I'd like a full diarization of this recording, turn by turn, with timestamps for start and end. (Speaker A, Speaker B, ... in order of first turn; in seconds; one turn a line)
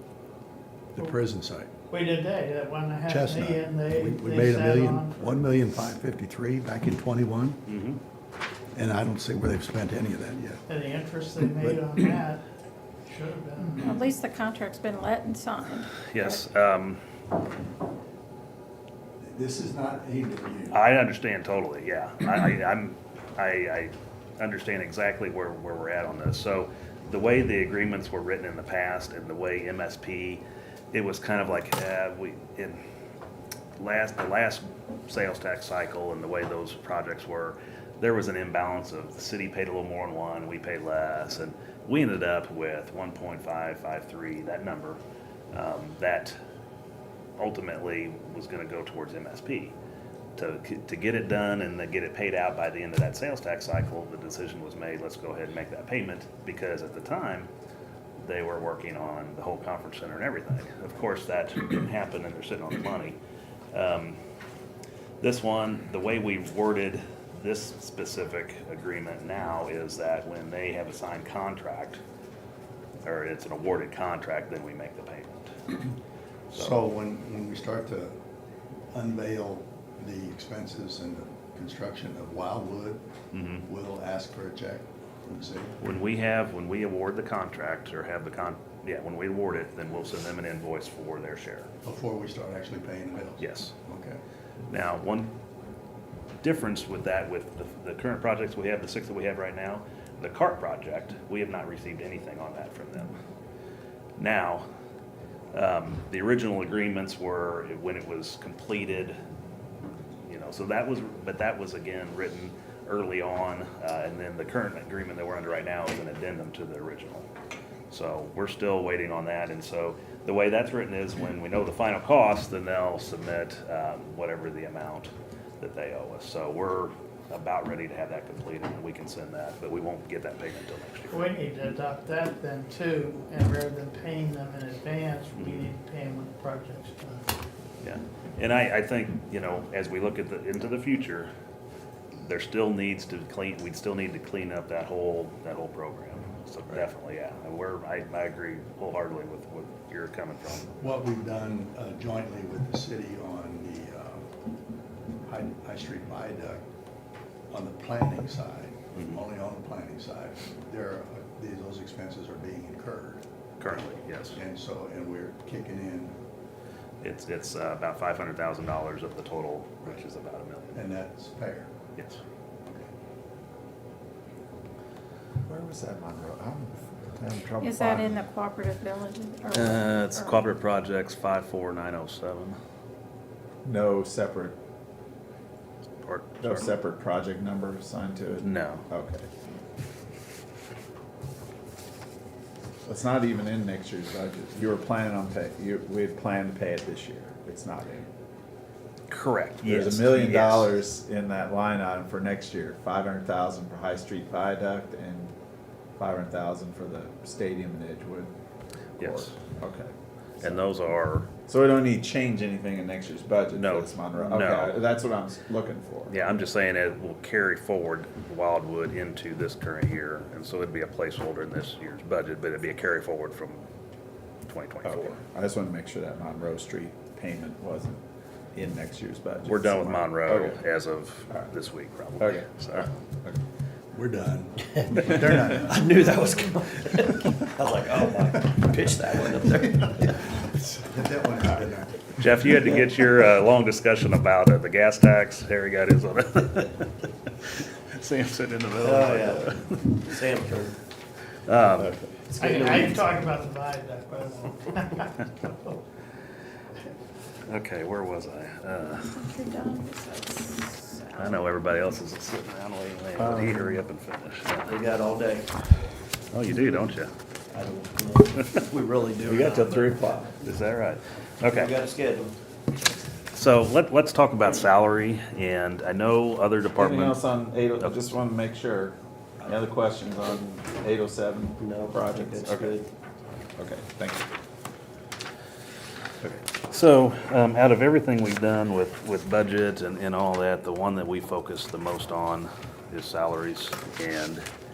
Speaker A: 0.9-1.7
Speaker B: 1.9-5.3
Speaker A: 3.1-7.6
Speaker C: 7.7-8.0
Speaker A: 8.7-10.6
Speaker B: 10.7-12.4
Speaker A: 11.6-12.1
Speaker B: 13.1-14.1
Speaker D: 13.8-16.3
Speaker C: 16.0-17.0
Speaker A: 19.2-20.8
Speaker C: 20.7-32.8
Speaker C: 33.8-45.0
Speaker C: 45.5-46.3
Speaker C: 47.4-49.7
Speaker C: 50.4-57.5
Speaker C: 58.2-63.2
Speaker C: 63.7-64.2
Speaker C: 65.2-72.0
Speaker C: 73.0-75.5
Speaker C: 76.5-76.8
Speaker A: 76.5-78.2
Speaker A: 78.9-83.0
Speaker C: 83.3-83.6
Speaker A: 83.6-85.7
Speaker C: 85.8-91.7
Speaker A: 91.8-94.2
Speaker C: 93.4-93.7
Speaker C: 94.7-95.3
Speaker C: 96.4-103.1
Speaker C: 104.2-104.6
Speaker C: 105.5-109.2
Speaker C: 110.2-117.3
Speaker C: 117.9-131.4
Speaker B: 131.1-137.2
Speaker C: 135.3-135.7
Speaker C: 137.8-141.3
Speaker C: 142.2-150.7
Speaker A: 150.8-154.3
Speaker A: 155.2-156.6
Speaker A: 157.5-166.2
Speaker C: 163.6-164.4
Speaker C: 167.0-170.9
Speaker A: 170.7-171.7
Speaker E: 175.4-178.1
Speaker D: 177.6-180.4
Speaker C: 179.5-182.6
Speaker E: 183.6-184.6
Speaker C: 186.0-186.7
Speaker E: 186.4-189.3
Speaker C: 188.4-188.8
Speaker E: 192.8-198.1
Speaker C: 199.1-200.7
Speaker E: 199.6-205.3
Speaker E: 206.0-208.3
Speaker E: 209.0-210.6
Speaker C: 209.0-209.3
Speaker C: 210.4-211.3
Speaker E: 211.5-216.2
Speaker C: 213.5-214.8
Speaker C: 216.1-223.6
Speaker C: 224.5-225.2
Speaker E: 224.8-228.0
Speaker E: 228.5-230.6
Speaker C: 229.5-232.9
Speaker E: 232.2-233.4
Speaker A: 233.9-236.1
Speaker F: 234.9-240.2
Speaker A: 240.8-242.5
Speaker C: 242.2-250.2
Speaker F: 248.8-250.8
Speaker C: 251.4-251.9
Speaker B: 252.3-255.8
Speaker F: 252.3-253.1
Speaker C: 257.5-259.2
Speaker D: 258.9-261.6
Speaker C: 261.1-264.7
Speaker E: 263.2-263.8
Speaker F: 264.6-265.5
Speaker C: 266.3-267.1
Speaker F: 267.5-270.0
Speaker E: 269.2-270.3
Speaker C: 270.4-271.7
Speaker F: 271.4-272.4
Speaker C: 273.3-277.2
Speaker E: 276.8-282.8
Speaker C: 277.8-278.0
Speaker F: 281.6-282.9
Speaker E: 283.6-284.3
Speaker C: 286.6-294.4